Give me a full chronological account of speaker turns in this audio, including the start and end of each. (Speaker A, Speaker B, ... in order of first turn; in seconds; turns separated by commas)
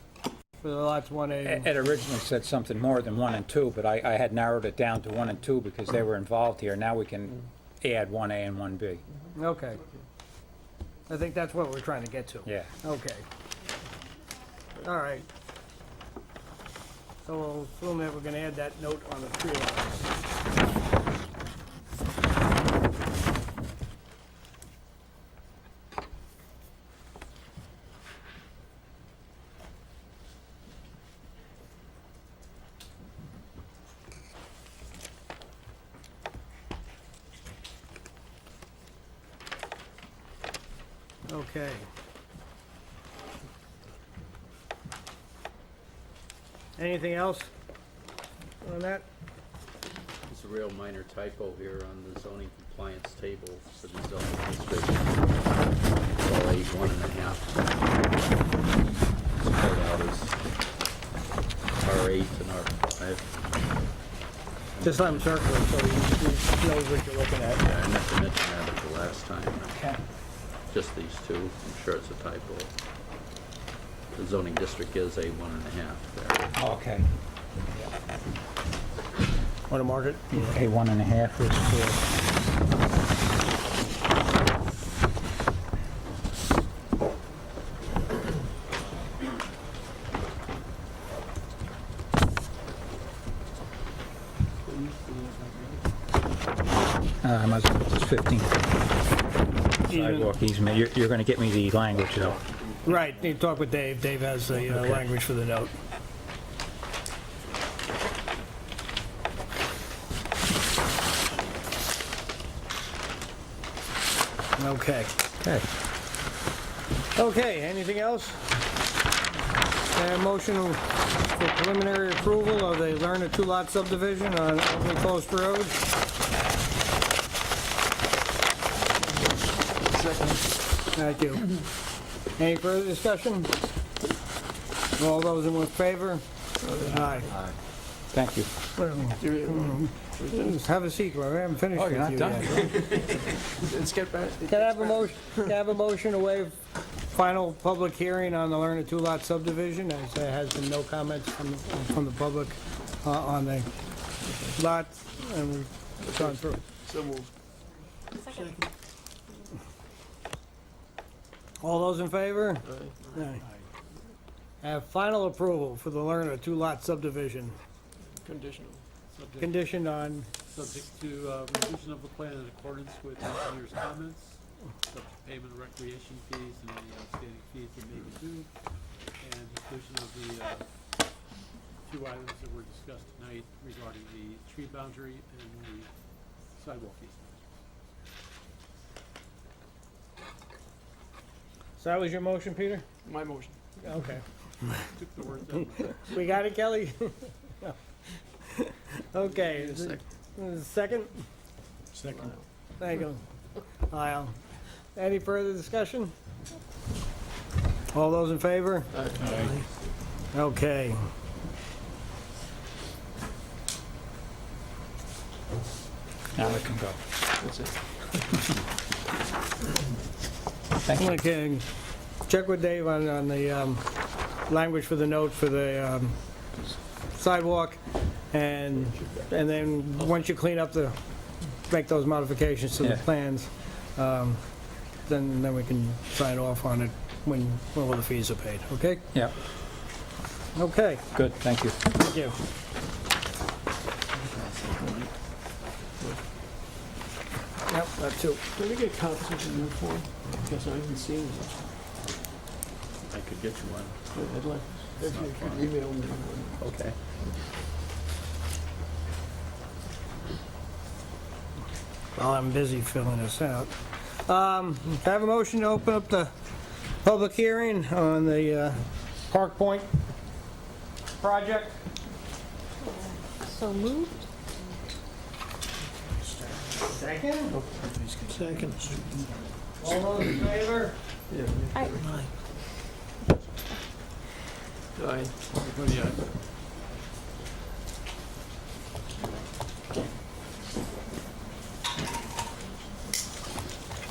Speaker A: 0.6-1.7, Speaker B: 1.4-9.0, Speaker A: 9.4-9.8, Speaker A: 11.1-13.2, Speaker B: 12.5-12.7, Speaker A: 14.8-15.3, Speaker A: 17.2-20.1, Speaker A: 41.3-41.9, Speaker A: 46.8-47.5, Speaker A: 48.6-49.1, Speaker C: 50.3-55.4, Speaker C: 56.2-57.6, Speaker C: 58.8-60.4, Speaker C: 61.8-63.3, Speaker C: 64.8-65.3, Speaker A: 64.8-67.6, Speaker C: 67.6-69.8, Speaker B: 69.7-70.0, Speaker C: 70.7-72.7, Speaker C: 74.1-76.5, Speaker B: 76.6-77.1, Speaker A: 79.7-80.6, Speaker B: 80.3-82.0, Speaker D: 94.7-95.8, Speaker B: 97.2-98.6, Speaker B: 99.9-102.4, Speaker A: 99.9-100.3, Speaker A: 102.8-105.7, Speaker B: 104.7-105.0, Speaker A: 114.6-115.1, Speaker A: 117.2-118.4, Speaker A: 119.9-125.8, Speaker D: 129.3-130.4, Speaker A: 130.9-131.5, Speaker A: 132.4-133.5, Speaker A: 135.0-136.2, Speaker D: 136.6-137.2, Speaker A: 136.8-137.3, Speaker B: 138.1-138.5, Speaker A: 138.8-142.6, Speaker D: 139.2-140.6, Speaker B: 141.7-142.8, Speaker D: 142.7-145.1, Speaker A: 144.5-146.6, Speaker A: 147.1-153.7, Speaker D: 154.2-154.6, Speaker A: 154.5-156.6, Speaker D: 156.0-157.3, Speaker E: 158.1-158.7, Speaker A: 158.3-158.6, Speaker A: 161.6-163.4, Speaker D: 162.7-163.0, Speaker F: 163.2-163.7, Speaker A: 164.6-167.6, Speaker D: 168.1-168.8, Speaker F: 169.1-169.7, Speaker A: 169.4-170.3, Speaker F: 170.5-178.5, Speaker F: 179.2-180.7, Speaker F: 181.9-185.9, Speaker F: 186.6-187.4, Speaker A: 191.8-192.8, Speaker D: 193.1-193.6, Speaker A: 193.8-194.2, Speaker F: 194.9-196.1, Speaker A: 195.9-197.8, Speaker A: 198.5-201.2, Speaker D: 199.2-200.0, Speaker F: 201.9-202.4, Speaker A: 202.8-203.2, Speaker A: 203.9-204.4, Speaker A: 204.9-206.1, Speaker A: 207.9-208.9, Speaker D: 208.9-209.7, Speaker F: 209.2-209.6, Speaker A: 210.3-211.0, Speaker B: 216.3-217.0, Speaker D: 217.4-218.4, Speaker B: 220.8-221.2, Speaker A: 221.0-221.7, Speaker A: 222.3-223.8, Speaker A: 224.5-226.2, Speaker A: 227.1-227.8, Speaker A: 228.3-230.9, Speaker A: 231.7-234.4, Speaker A: 235.1-239.1, Speaker A: 240.5-241.1, Speaker B: 241.1-241.8, Speaker A: 241.9-242.3, Speaker C: 244.3-245.1, Speaker A: 247.7-248.4, Speaker D: 248.3-251.6, Speaker C: 253.1-254.0, Speaker D: 254.1-256.7, Speaker C: 254.9-255.7, Speaker C: 256.6-257.0, Speaker A: 262.2-266.3, Speaker A: 267.0-269.9, Speaker A: 271.2-271.8, Speaker E: 272.8-274.8, Speaker A: 276.8-277.6, Speaker D: 277.5-279.0, Speaker A: 279.8-280.9, Speaker D: 281.3-282.2, Speaker E: 281.7-282.3, Speaker D: 285.0-285.4, Speaker F: 285.6-286.3